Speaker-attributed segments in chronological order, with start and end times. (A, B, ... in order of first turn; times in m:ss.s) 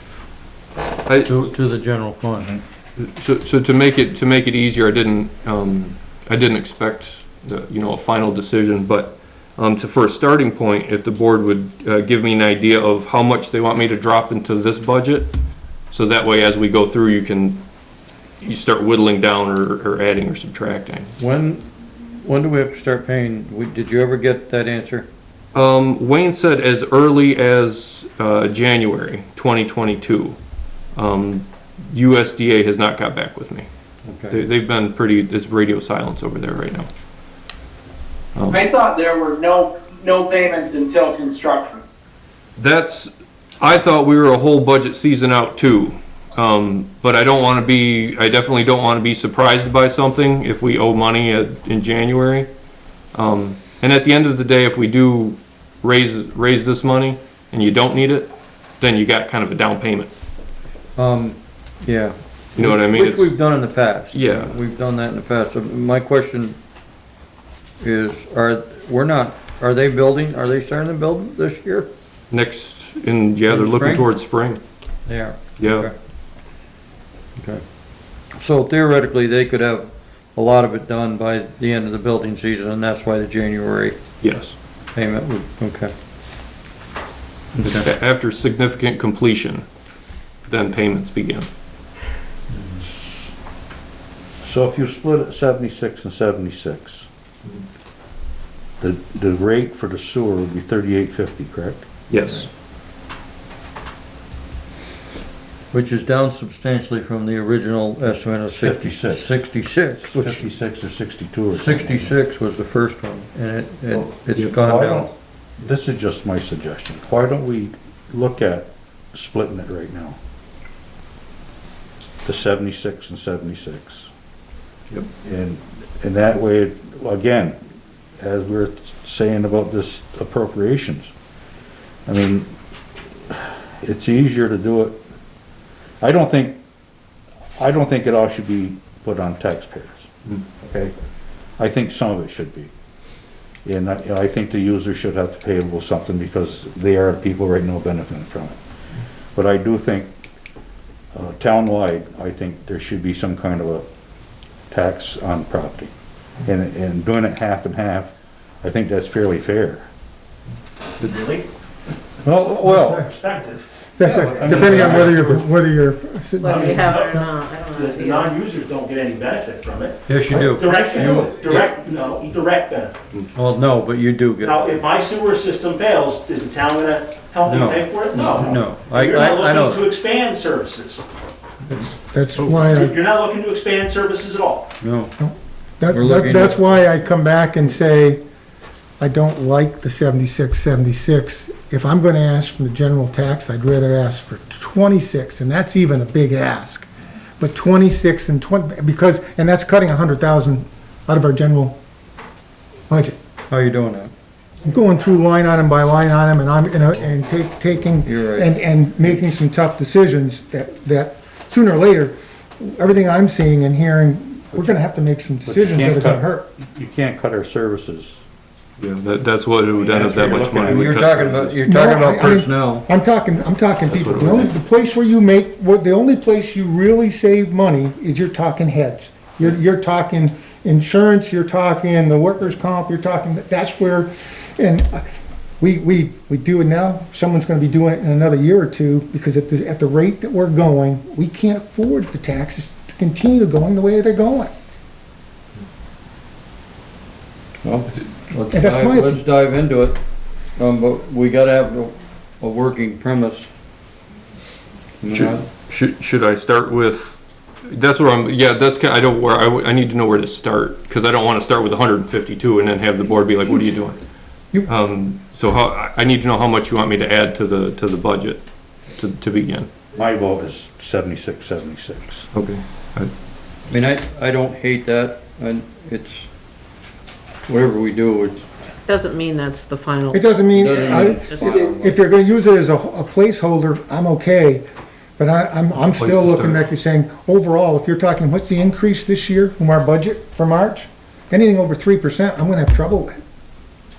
0:01.0-0:01.5 A
0:01.2-0:02.6 B
0:03.0-0:15.3 A
0:15.9-0:17.6 A
0:18.4-0:21.1 A
0:21.2-0:25.1 B
0:25.5-0:30.4 A
0:31.0-0:33.7 A
0:34.0-0:34.4 B
0:34.3-0:36.9 A
0:38.3-0:38.7 A
0:38.5-0:41.8 C
0:42.6-0:52.5 A
0:53.1-1:00.1 A
1:01.0-1:06.6 B
1:02.6-1:03.3 A
1:04.1-1:04.6 A
1:07.8-1:11.9 B
1:12.3-1:14.6 A
1:13.5-1:14.1 B
1:15.0-1:15.9 B
1:15.6-1:15.9 A
1:17.4-1:17.6 B
1:18.4-1:24.0 B
1:24.2-1:24.5 A
1:24.9-1:25.9 B
1:27.5-1:27.9 B
1:27.6-1:29.6 A
1:30.5-1:31.5 A
1:32.8-1:33.3 D
1:34.4-1:37.1 D
1:38.8-1:41.9 D
1:42.1-1:42.5 A
1:45.7-1:50.4 B
1:48.5-1:49.4 D
1:50.0-1:52.1 D
1:51.5-1:55.1 B
1:53.9-2:00.2 D
2:02.2-2:04.1 D
2:05.2-2:07.6 D
2:08.2-2:11.1 D
2:12.1-2:12.5 D
2:13.3-2:15.0 D
2:16.0-2:16.6 D
2:17.6-2:20.1 D
2:20.3-2:20.6 A
2:20.6-2:20.9 D
2:21.6-2:22.7 D
2:23.6-2:28.6 D
2:29.3-2:30.1 D
2:31.1-2:33.8 D
2:34.7-2:35.9 D
2:36.4-2:39.9 D
2:41.0-2:41.5 E
2:42.2-2:43.1 D
2:42.5-2:43.6 E
2:42.7-2:43.0 F
2:44.0-2:47.3 F
2:44.0-2:45.3 D
2:44.5-2:45.2 E
2:44.6-2:45.1 A
2:46.4-2:48.4 G
2:46.4-2:47.1 E
2:47.7-2:53.0 E
2:50.1-2:51.6 B
2:50.3-2:51.5 D
2:53.3-2:54.7 B
2:54.4-3:01.0 E
2:57.4-2:59.9 B
3:01.7-3:01.9 B
3:02.0-3:02.9 F
3:02.4-3:04.7 E
3:04.8-3:05.1 B
3:05.2-3:08.2 F
3:05.9-3:06.9 B
3:09.0-3:21.8 F
3:22.9-3:23.2 F
3:23.5-3:24.1 B
3:24.6-3:36.5 F
3:28.0-3:28.5 B
3:35.4-3:38.2 D
3:38.8-3:41.6 A
3:39.8-3:41.0 D
3:40.6-3:42.8 B
3:41.6-3:55.0 F
3:43.9-3:44.4 A
3:55.6-4:04.5 F
4:07.6-4:10.0 B
4:08.5-4:09.2 F
4:10.6-4:13.5 B
4:15.0-4:15.4 B
4:15.1-4:24.0 A
4:24.5-4:29.7 A
4:29.9-4:32.3 D
4:32.3-4:33.1 A
4:33.7-4:36.3 B
4:37.5-4:38.5 B
4:38.9-4:41.7 G
4:40.1-4:44.6 F
4:40.5-4:42.0 B
4:45.2-4:53.2 F
4:45.8-4:46.6 A